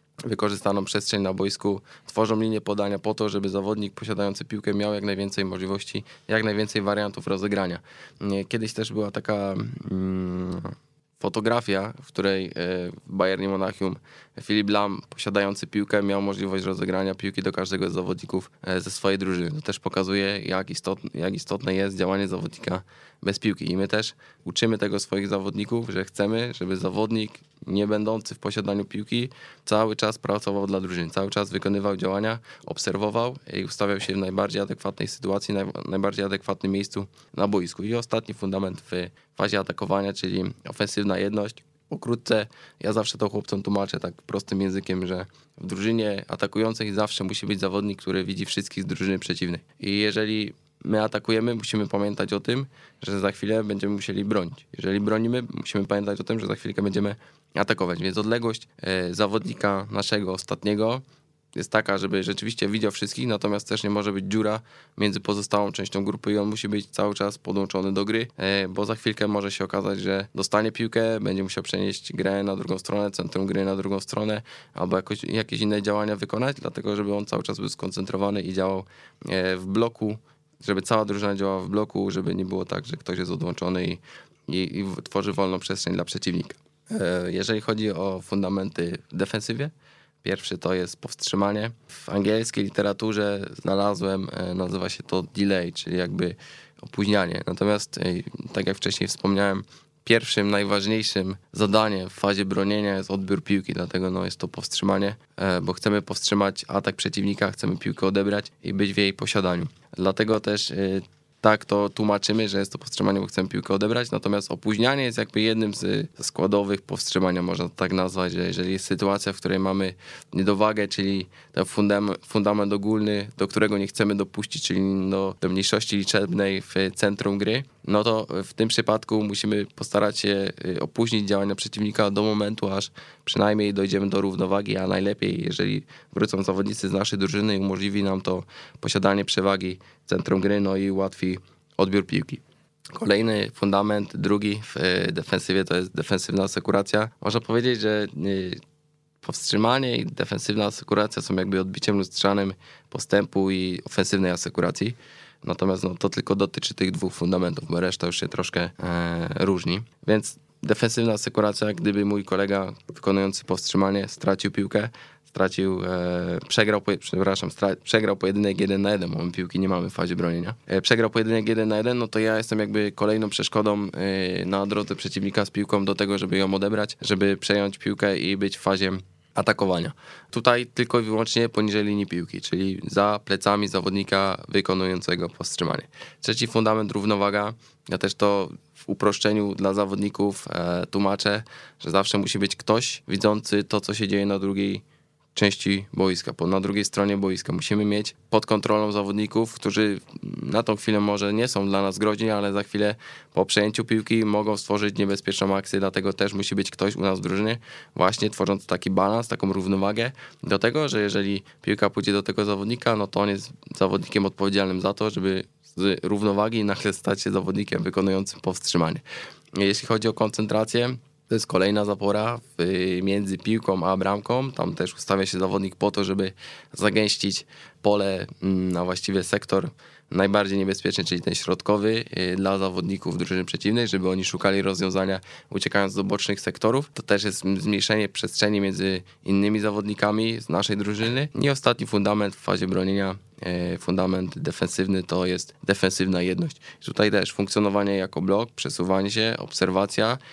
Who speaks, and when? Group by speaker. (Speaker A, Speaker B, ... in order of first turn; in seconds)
Speaker A: 0.2-61.0, 61.5-89.7, 90.2-142.4, 142.9-148.6, 149.2-194.8, 195.3-219.0, 219.6-250.2